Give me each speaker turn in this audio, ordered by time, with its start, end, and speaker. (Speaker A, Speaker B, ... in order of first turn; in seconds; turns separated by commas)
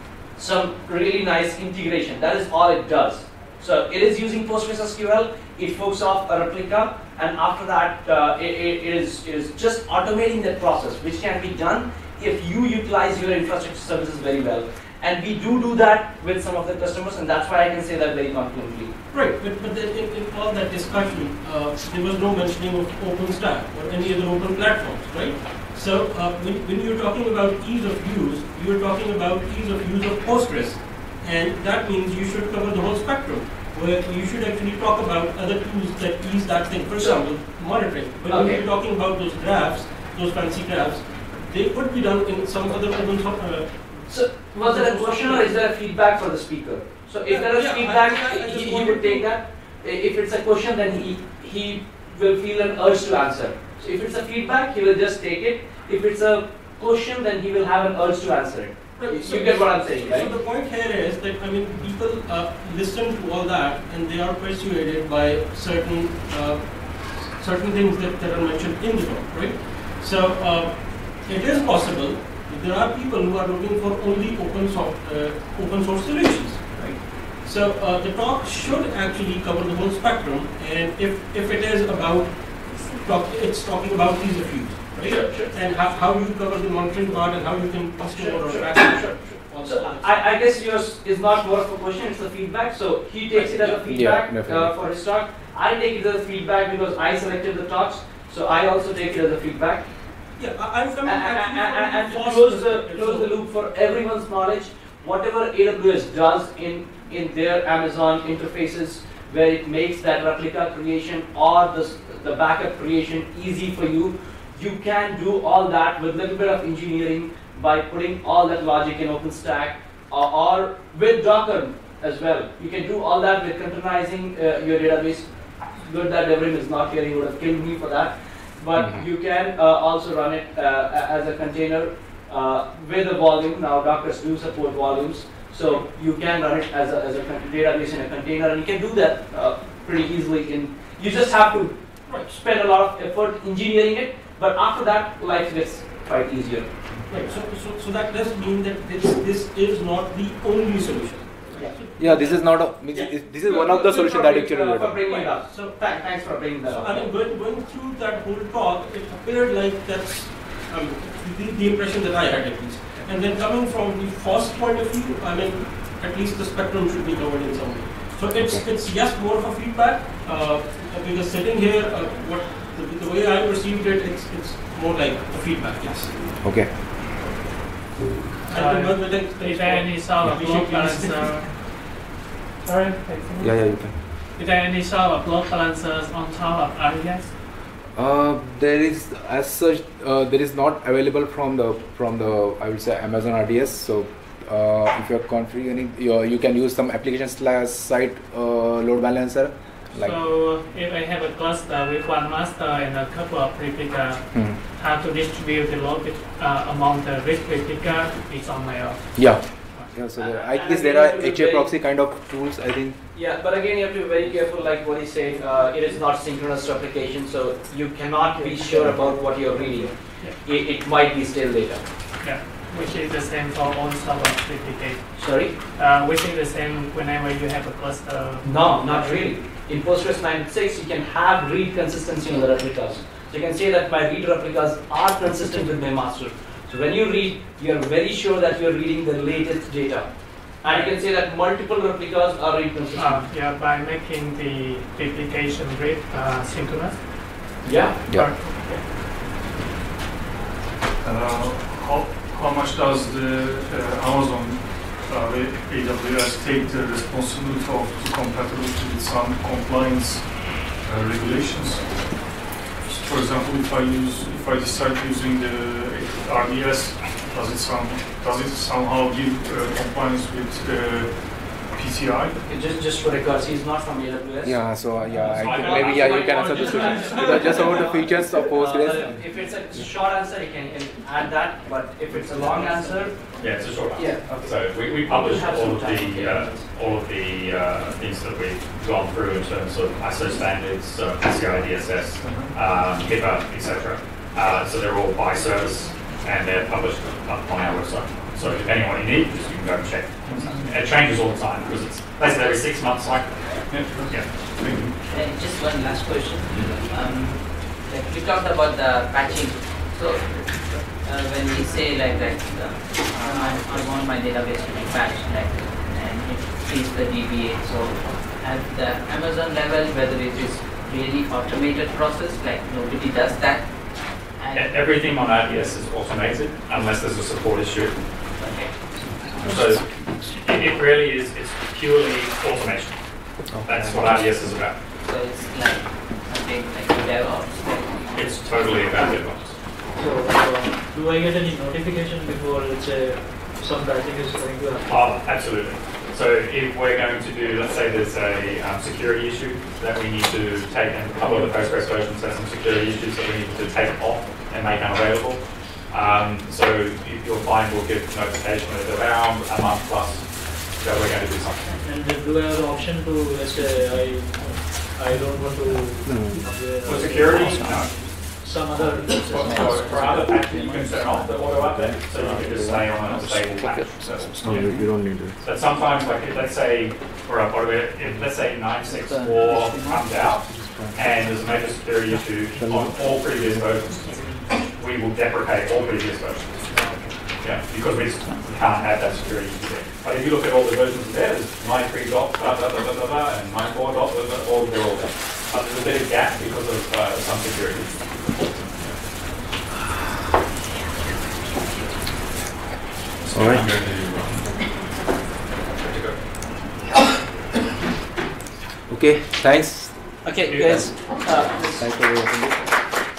Speaker A: 0.3-18.9, Speaker B: 19.1-45.6, Speaker A: 37.0-37.4, Speaker A: 38.3-38.6, Speaker A: 44.1-60.4, Speaker B: 47.2-49.3, Speaker B: 59.0-90.3, Speaker A: 85.0-85.5, Speaker A: 88.0-99.9, Speaker B: 93.3-93.9, Speaker C: 93.9-94.7, Speaker B: 100.3-103.3, Speaker A: 101.0-146.7, Speaker C: 128.8-129.0, Speaker B: 147.1-155.9, Speaker C: 152.0-155.0, Speaker A: 153.5-157.1, Speaker B: 156.6-176.3, Speaker C: 176.4-176.7, Speaker D: 178.4-181.9, Speaker B: 178.5-181.7, Speaker D: 182.6-187.3, Speaker C: 183.4-184.0, Speaker C: 187.9-200.2, Speaker D: 200.0-209.9, Speaker C: 204.3-204.6, Speaker C: 209.2-213.0, Speaker A: 210.2-211.7, Speaker A: 213.1-221.8, Speaker D: 222.2-229.3, Speaker A: 225.2-225.5, Speaker A: 228.4-243.3, Speaker D: 240.7-241.0, Speaker D: 242.9-247.5, Speaker A: 247.6-248.8, Speaker D: 248.1-248.7, Speaker E: 251.0-262.4, Speaker E: 262.9-272.4, Speaker A: 272.5-274.8, Speaker C: 274.4-279.2, Speaker F: 275.3-277.3, Speaker A: 275.3-286.7, Speaker F: 283.4-303.4, Speaker E: 300.2-300.7, Speaker E: 303.7-304.9, Speaker F: 303.9-304.3, Speaker G: 305.1-324.8, Speaker F: 324.5-328.0, Speaker G: 328.4-329.6, Speaker F: 329.4-334.8, Speaker C: 333.5-334.0, Speaker G: 335.0-339.3, Speaker F: 338.1-339.6, Speaker H: 339.9-345.1, Speaker F: 344.8-361.8, Speaker H: 351.2-351.5, Speaker H: 361.8-371.0, Speaker C: 366.0-366.4, Speaker F: 366.8-368.1, Speaker F: 369.1-386.7, Speaker C: 371.5-372.8, Speaker C: 373.6-375.4, Speaker C: 380.5-381.0, Speaker C: 382.5-383.3, Speaker F: 387.4-399.0, Speaker F: 403.3-404.5, Speaker C: 403.3-403.6, Speaker F: 405.7-406.2, Speaker C: 408.9-409.9, Speaker A: 410.2-411.9, Speaker F: 410.5-410.9, Speaker C: 411.8-412.6